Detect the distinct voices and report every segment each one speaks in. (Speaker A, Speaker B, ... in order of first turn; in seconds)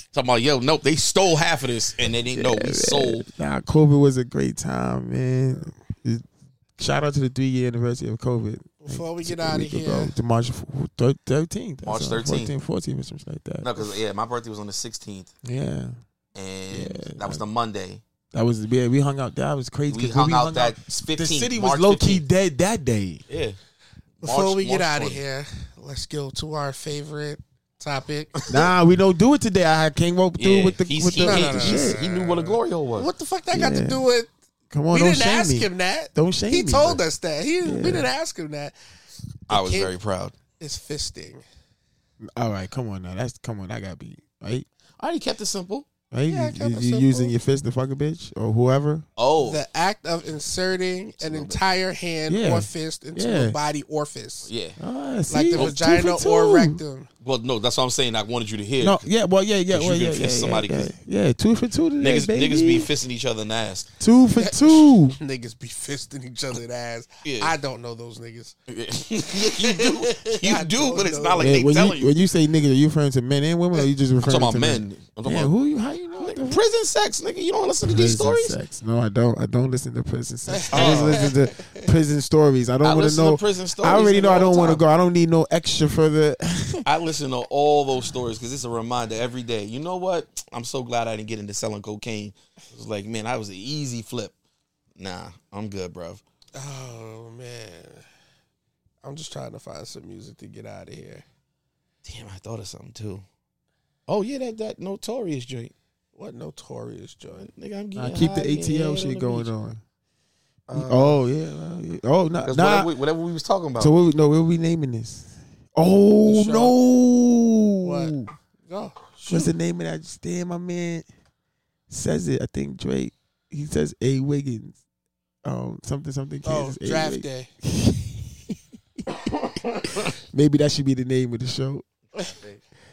Speaker A: 0.1-3.3, 11.8-12.5, 13.6-15.3, 16.3-18.0, 19.9-22.2, 23.3-23.6, 24.2-25.2, 28.4-28.7, 30.4-33.1, 39.5-40.4, 45.0-45.9, 49.2-49.6, 51.2-51.6, 54.4-54.8, 57.2-59.1, 59.7-60.9, 62.0-63.9, 67.2-67.5, 68.7-72.2, 74.2-75.5, 76.2-78.6, 80.7-81.3, 82.8-84.8, 86.8-94.3, 95.0-96.2, 102.0-103.2, 104.1-105.7, 107.3-109.5, 110.7-111.2, 112.4-113.9, 132.2-132.6
Speaker B: 2.4-6.3, 6.8-13.8, 15.4-16.0, 16.7-17.4, 18.3-23.2, 28.5-32.0, 33.5-34.0, 34.7-37.0, 37.6-38.1, 42.4-44.6, 46.1-49.0, 52.3-53.6, 54.8-56.8, 58.8-62.9, 64.0-65.2, 71.4-76.6, 77.9-86.8, 108.0-109.8, 110.7-112.9, 113.8-118.3, 119.3-121.0, 121.9-124.8, 125.4-128.6, 130.1-131.8
Speaker C: 8.8-10.1, 24.2-28.4, 31.2-34.3, 34.9-38.7, 39.5-39.9, 40.6-41.4, 46.3-47.3, 49.4-54.5, 55.3-57.1, 64.3-68.5, 69.3-71.4, 80.5-81.8, 96.5-98.0, 99.0-101.2, 106.2-107.5, 116.2-116.7, 117.8-118.1, 118.7-119.5, 126.4-127.5